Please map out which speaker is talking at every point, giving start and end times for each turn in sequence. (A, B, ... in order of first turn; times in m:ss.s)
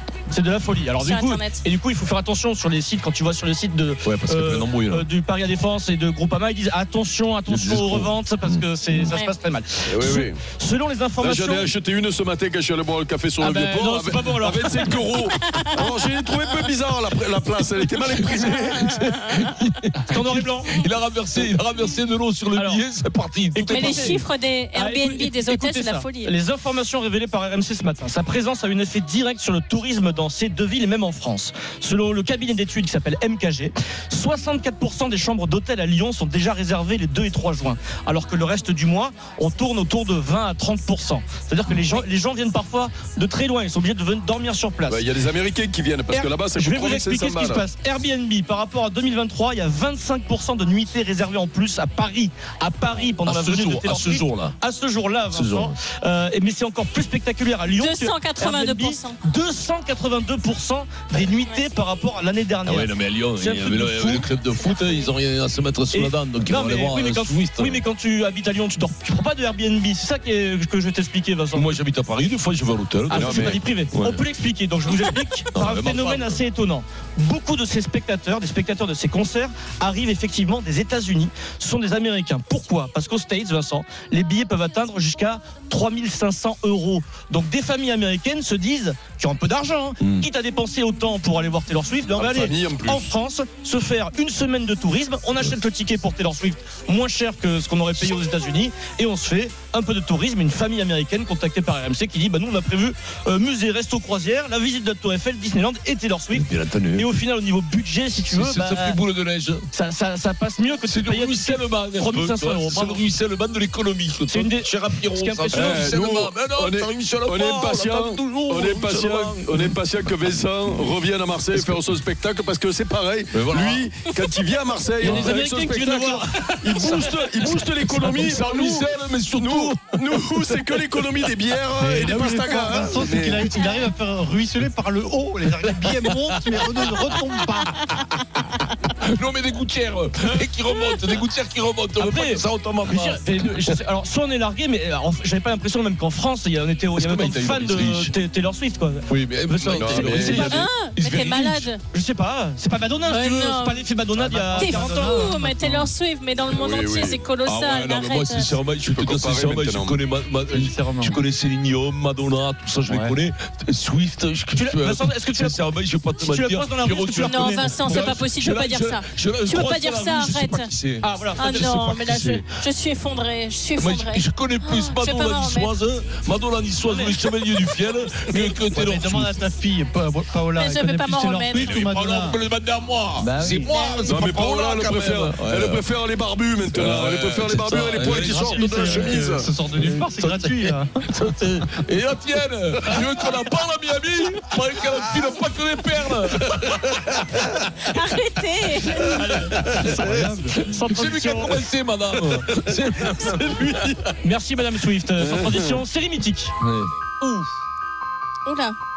0:00.3-0:11.7 A
0:01.0-0:01.6 B
0:04.0-0:05.1 C
0:07.5-0:09.1 C
0:09.1-0:09.3 B
0:09.9-0:10.4 D
0:11.2-0:18.9 D
0:13.4-0:14.8 A
0:15.4-0:15.7 B
0:18.1-0:24.2 C
0:20.1-0:20.8 A
0:22.6-0:22.8 A
0:23.6-0:24.2 A
0:23.7-0:26.3 B
0:24.7-0:45.0 A
0:44.9-0:47.7 D
0:46.1-1:04.3 A
0:53.2-0:54.6 C
0:55.3-0:55.8 C
0:57.8-0:59.2 B
1:02.6-1:07.8 C
1:04.6-1:05.1 B
1:05.9-1:11.7 A
1:11.5-1:14.2 C
1:13.1-1:49.0 A
1:13.1-1:13.6 D
1:15.5-1:16.4 C
1:30.0-1:30.3 C
1:32.1-1:33.1 D
1:46.3-1:47.1 C
1:48.3-1:49.7 C
1:49.7-1:53.0 A
1:50.9-1:59.8 C
1:54.3-1:56.0 A
1:55.5-2:13.5 D
2:01.5-2:01.8 C
2:03.3-2:03.9 C
2:05.0-2:05.4 C
2:05.0-2:07.0 A
2:06.7-2:09.8 C
2:11.8-2:17.7 E
2:16.0-2:16.9 C
2:19.0-2:23.8 C
2:22.0-2:30.6 A
2:27.0-2:28.1 C
2:29.1-2:31.7 C
2:29.7-2:30.6 D
2:30.4-2:31.8 B
2:31.9-2:35.3 A
2:33.0-2:33.9 B
2:34.1-2:35.9 E
2:34.6-2:38.5 B
2:36.5-2:37.2 D
2:37.4-2:52.5 C
2:38.8-2:40.0 D
2:40.5-2:41.2 E
2:42.9-2:43.2 E
2:44.6-2:45.6 A
2:46.2-2:47.8 A
2:47.2-2:50.7 B
2:51.0-2:51.7 A
2:51.4-2:55.7 B
2:53.8-2:59.4 C
2:56.9-2:57.2 A
2:58.7-3:02.4 E
3:00.6-3:01.9 B
3:01.5-3:05.8 C
3:03.6-3:04.2 B
3:04.0-3:09.5 D
3:06.7-3:17.6 C
3:08.0-3:10.9 E
3:17.9-3:19.2 B
3:18.8-3:24.1 C
3:19.2-3:20.0 A
3:19.8-3:20.6 E
3:20.6-3:21.6 A
3:24.2-3:26.5 A
3:26.6-3:26.9 C
3:27.2-3:27.5 A
3:28.4-3:28.8 B